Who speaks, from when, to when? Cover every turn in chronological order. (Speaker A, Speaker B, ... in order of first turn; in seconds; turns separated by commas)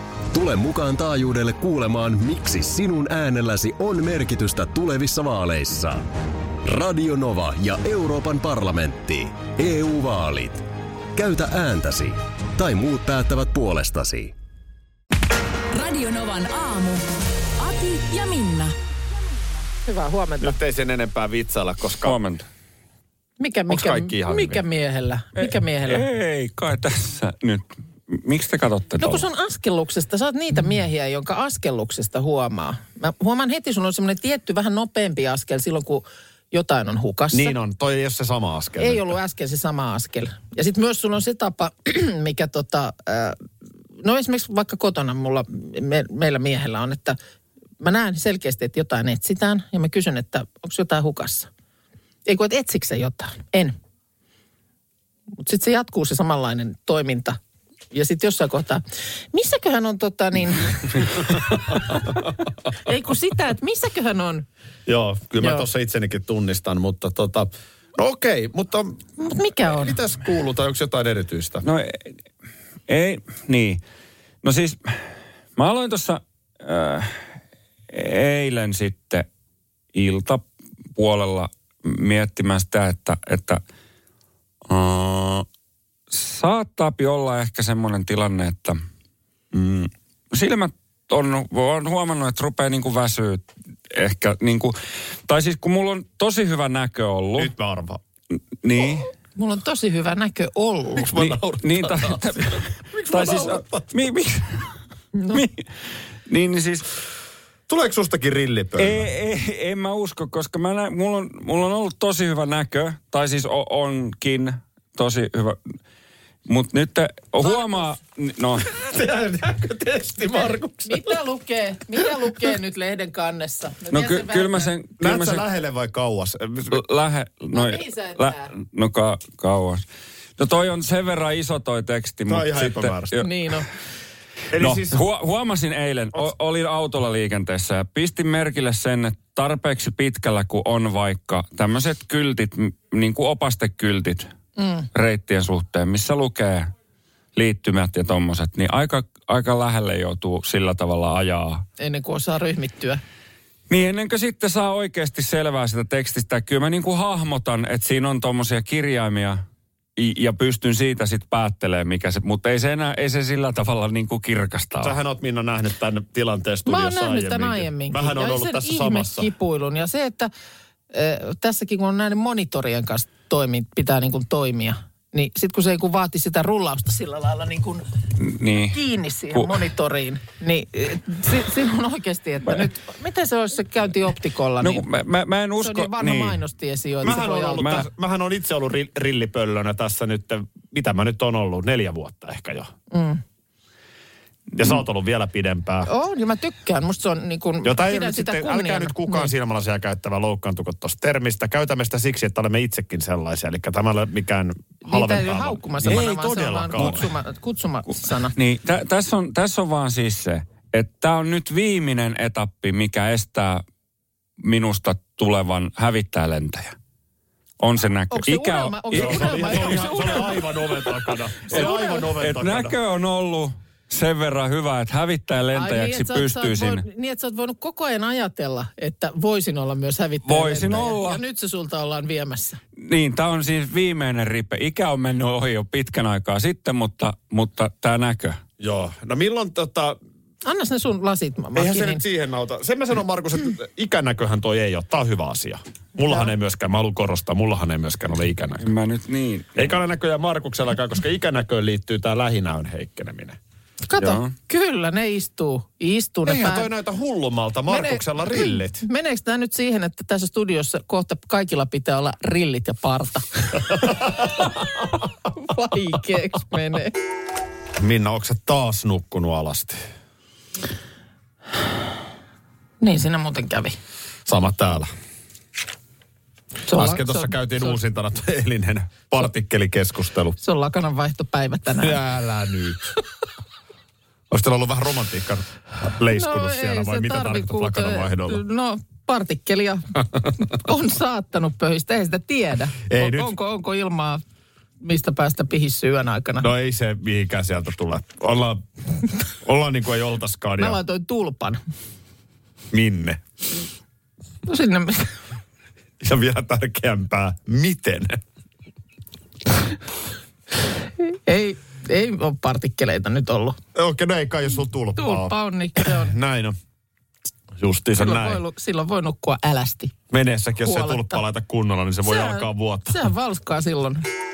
Speaker A: 0.3-6.0, Speaker A: 6.6-14.3, Speaker B: 15.7-17.0, Speaker B: 17.6-18.7, Speaker C: 19.8-20.6, Speaker D: 20.4-22.2, Speaker E: 22.0-22.4, Speaker C: 23.4-26.1, Speaker D: 23.7-24.6, Speaker E: 25.4-29.2, Speaker C: 29.0-37.5, Speaker D: 37.3-39.2, Speaker C: 38.8-43.4, Speaker C: 44.0-47.2, Speaker C: 47.8-51.5, Speaker C: 52.2-53.8, Speaker C: 55.4-57.4, Speaker C: 57.9-62.2, Speaker D: 61.4-61.7, Speaker C: 62.8-64.5, Speaker D: 64.8-69.0, Speaker C: 69.2-70.0, Speaker D: 69.7-71.6, Speaker E: 71.6-72.1, Speaker E: 72.9-73.8, Speaker E: 74.4-75.0, Speaker E: 75.5-77.2, Speaker E: 77.9-79.3, Speaker E: 79.9-80.4, Speaker E: 81.0-83.6, Speaker E: 84.7-85.5, Speaker E: 86.1-88.8, Speaker E: 89.5-94.7, Speaker E: 95.3-97.5, Speaker D: 97.3-98.0, Speaker E: 98.6-99.1, Speaker C: 99.3-101.1, Speaker D: 101.0-103.9, Speaker E: 101.2-104.7, Speaker C: 105.1-105.4, Speaker E: 105.3-105.6, Speaker E: 106.2-106.9, Speaker D: 107.7-109.0, Speaker E: 108.8-115.6, Speaker E: 116.5-118.7, Speaker D: 118.7-121.2, Speaker C: 120.8-124.7, Speaker E: 123.9-125.4, Speaker D: 125.0-126.8, Speaker E: 126.7-129.8, Speaker C: 127.5-128.5, Speaker E: 130.4-133.3, Speaker D: 132.2-133.2, Speaker C: 133.2-133.7, Speaker D: 134.5-135.0, Speaker E: 134.6-144.3, Speaker C: 144.6-144.9, Speaker E: 144.9-146.7, Speaker E: 147.3-151.6, Speaker C: 151.8-153.0, Speaker E: 153.7-159.4, Speaker E: 160.0-164.9, Speaker D: 164.8-169.3, Speaker C: 166.7-170.3, Speaker C: 170.9-177.8, Speaker E: 178.2-178.8, Speaker C: 178.5-184.9, Speaker E: 179.3-179.6, Speaker E: 184.6-186.4, Speaker C: 185.6-187.9, Speaker D: 187.0-192.7, Speaker E: 187.0-187.8, Speaker C: 192.9-193.2, Speaker D: 194.5-195.9, Speaker C: 195.8-199.3, Speaker D: 197.6-207.1, Speaker C: 204.8-208.3, Speaker E: 208.3-213.6, Speaker E: 214.4-216.8, Speaker E: 217.6-219.9, Speaker C: 218.1-220.5, Speaker D: 218.9-222.8, Speaker C: 221.5-222.1, Speaker E: 221.5-226.8, Speaker C: 225.5-232.6, Speaker E: 230.2-231.2, Speaker E: 232.8-238.4, Speaker D: 238.6-240.0, Speaker C: 240.4-242.0, Speaker D: 241.5-248.7, Speaker E: 248.6-249.7, Speaker D: 249.6-253.4, Speaker C: 253.8-256.7, Speaker E: 254.0-254.3, Speaker D: 256.2-258.8, Speaker C: 257.7-266.9, Speaker D: 267.8-269.8, Speaker C: 272.8-273.8, Speaker D: 274.2-274.9, Speaker C: 276.7-277.8, Speaker D: 276.7-280.4, Speaker C: 280.4-282.0, Speaker D: 281.8-282.8, Speaker D: 284.3-288.4, Speaker C: 286.1-289.8, Speaker C: 290.4-294.2, Speaker D: 292.9-293.3, Speaker C: 294.8-296.5, Speaker D: 296.4-298.6, Speaker D: 299.4-300.8, Speaker C: 300.6-301.6, Speaker D: 302.7-303.2, Speaker C: 304.4-305.1, Speaker D: 306.0-308.2, Speaker C: 311.0-313.6, Speaker D: 313.7-316.6, Speaker C: 315.0-316.1, Speaker D: 317.6-318.4, Speaker C: 318.0-319.9, Speaker D: 320.1-323.1, Speaker C: 320.6-321.2, Speaker C: 322.0-324.0